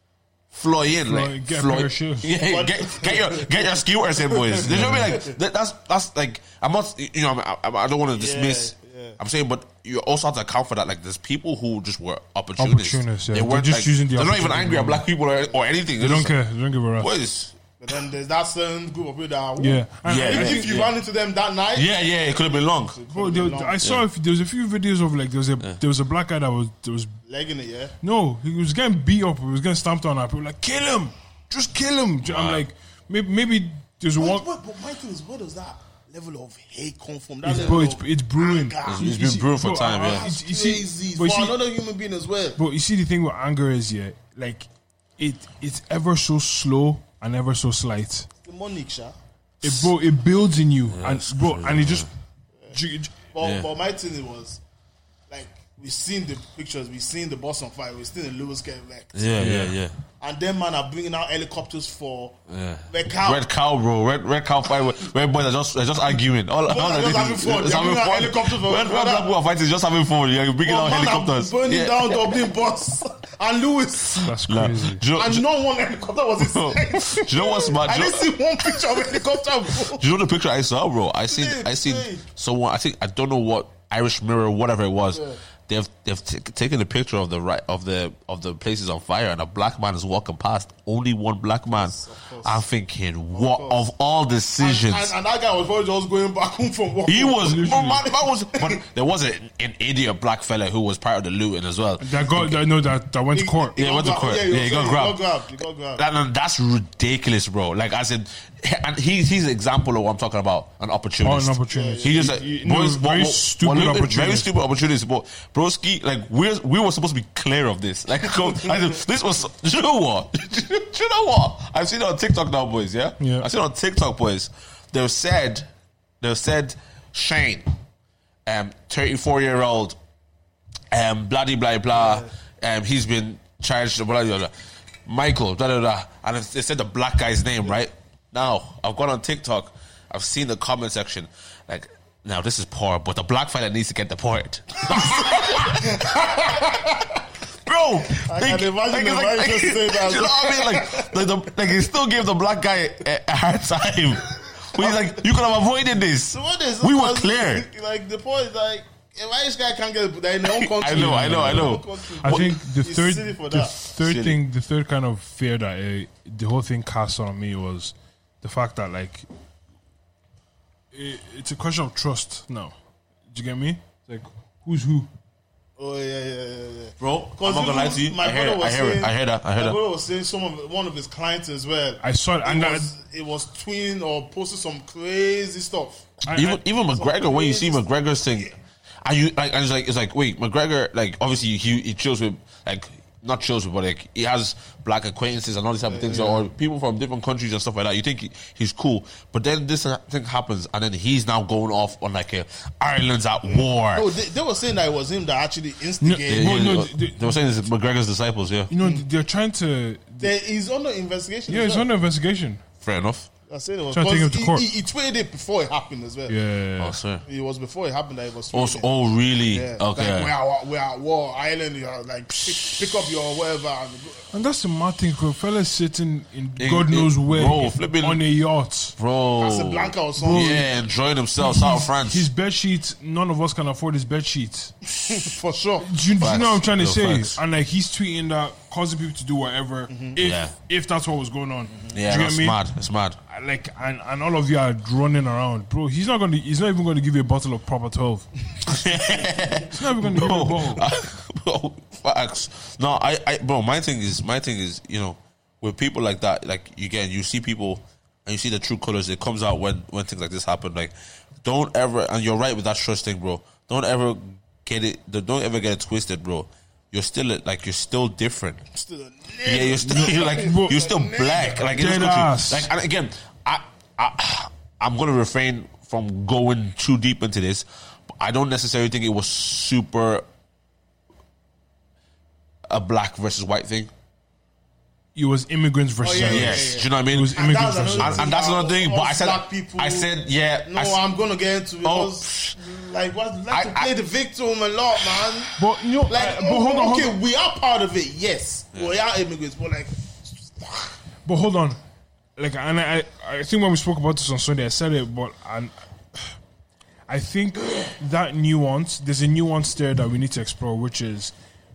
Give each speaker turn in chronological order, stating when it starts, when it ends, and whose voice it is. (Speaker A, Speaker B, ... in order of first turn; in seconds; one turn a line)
Speaker A: 0.5-16.4
Speaker B: 1.0-2.3
Speaker C: 2.4-5.4
Speaker B: 4.6-5.1
Speaker C: 8.1-9.2
Speaker B: 12.6-15.0
Speaker B: 16.0-17.1
Speaker A: 17.0-17.6
Speaker C: 17.8-21.9
Speaker B: 19.6-20.8
Speaker A: 20.1-20.9
Speaker A: 21.7-23.0
Speaker C: 22.7-23.8
Speaker B: 23.1-27.2
Speaker C: 27.3-27.9
Speaker B: 28.0-34.5
Speaker A: 32.2-32.6
Speaker C: 34.2-39.3
Speaker B: 37.4-41.6
Speaker A: 38.8-40.2
Speaker C: 40.0-42.6
Speaker B: 42.6-48.3
Speaker C: 48.4-49.1
Speaker A: 49.6-49.9
Speaker B: 49.6-52.1
Speaker A: 50.9-52.1
Speaker B: 52.7-53.1
Speaker C: 53.3-54.6
Speaker A: 53.4-53.7
Speaker C: 55.3-59.4
Speaker A: 59.1-59.9
Speaker B: 59.4-59.8
Speaker C: 60.2-63.4
Speaker A: 62.5-72.4
Speaker C: 66.7-69.3
Speaker C: 70.6-74.3
Speaker A: 74.2-75.5
Speaker B: 74.2-75.0
Speaker C: 75.1-80.0
Speaker A: 76.4-95.1
Speaker C: 81.3-82.2
Speaker C: 85.1-85.4
Speaker C: 91.7-92.6
Speaker C: 93.3-93.9
Speaker C: 94.6-98.8
Speaker A: 97.0-102.6
Speaker B: 97.4-98.0
Speaker B: 102.0-103.7
Speaker C: 103.3-106.0
Speaker A: 103.8-105.2
Speaker A: 106.0-125.7
Speaker B: 111.2-114.5
Speaker C: 111.7-112.5
Speaker B: 123.2-123.5
Speaker A: 126.2-127.7
Speaker A: 128.4-130.0
Speaker A: 130.9-134.5
Speaker C: 131.9-132.3
Speaker A: 135.0-147.0
Speaker C: 144.9-147.2
Speaker A: 147.6-157.7
Speaker C: 148.1-151.3
Speaker C: 154.6-155.2
Speaker C: 156.3-163.7
Speaker A: 160.4-162.6
Speaker B: 160.9-169.2
Speaker A: 163.9-164.4
Speaker B: 170.9-172.7
Speaker B: 173.3-175.1
Speaker C: 175.8-186.2
Speaker A: 177.0-179.8
Speaker B: 182.0-182.9
Speaker B: 186.2-186.6
Speaker A: 186.3-204.1
Speaker C: 186.9-187.8
Speaker C: 195.8-196.4
Speaker C: 203.4-206.7
Speaker B: 206.0-207.4
Speaker A: 206.3-208.7
Speaker B: 208.7-210.3
Speaker C: 208.8-209.0
Speaker C: 210.2-211.9
Speaker B: 211.5-212.6
Speaker A: 212.8-213.3
Speaker C: 213.5-216.4
Speaker B: 213.9-214.7
Speaker B: 216.3-217.0
Speaker A: 216.8-217.2
Speaker C: 217.2-224.3
Speaker A: 218.5-220.3
Speaker B: 224.3-228.9
Speaker A: 226.6-228.2
Speaker A: 229.0-232.3
Speaker C: 229.4-230.7
Speaker B: 230.2-230.7
Speaker B: 231.3-234.8
Speaker C: 234.9-236.2
Speaker B: 235.8-242.6
Speaker A: 236.2-237.4
Speaker C: 239.9-240.2
Speaker A: 240.2-240.5
Speaker A: 241.9-243.2
Speaker B: 243.3-248.3
Speaker A: 248.6-268.6
Speaker B: 249.6-250.9
Speaker C: 268.7-271.8
Speaker A: 269.4-280.2
Speaker B: 269.8-270.8
Speaker B: 271.7-272.7
Speaker A: 282.7-283.9
Speaker B: 285.1-288.3
Speaker C: 286.0-290.1
Speaker A: 286.2-291.0
Speaker C: 290.6-295.6
Speaker A: 291.8-292.6
Speaker A: 293.5-293.9
Speaker B: 295.6-297.1
Speaker C: 296.1-301.0
Speaker B: 301.2-301.8
Speaker B: 302.4-306.3
Speaker B: 307.1-311.3